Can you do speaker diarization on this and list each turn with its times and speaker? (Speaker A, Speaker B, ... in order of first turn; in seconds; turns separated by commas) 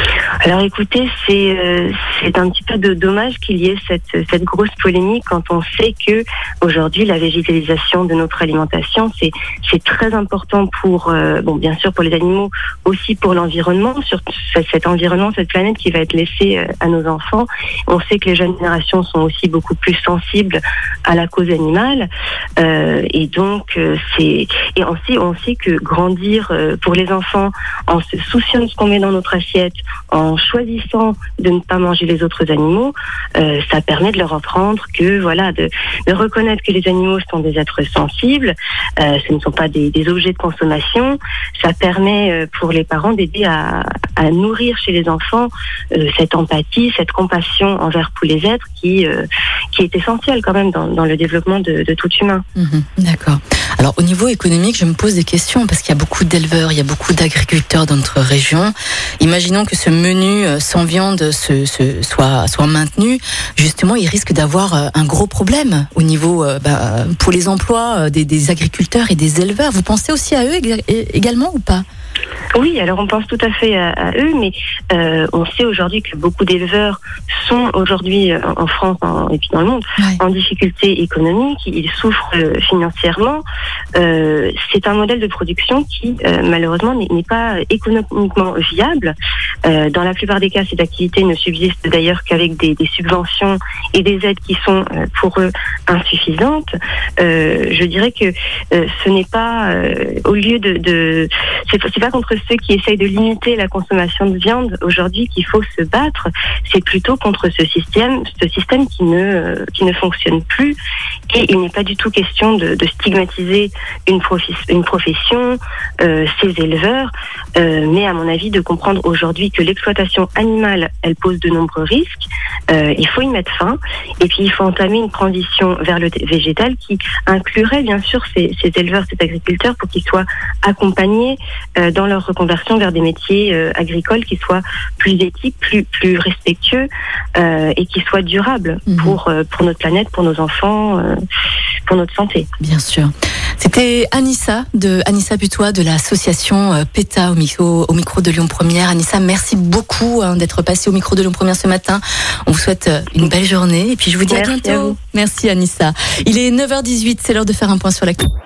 Speaker A: 0.4-52.4, Speaker B: 52.5-71.8, Speaker A: 72.5-83.4, Speaker A: 83.9-110.8, Speaker A: 111.3-141.2, Speaker B: 138.9-139.2, Speaker A: 141.9-142.5, Speaker B: 142.6-158.3, Speaker A: 154.3-155.0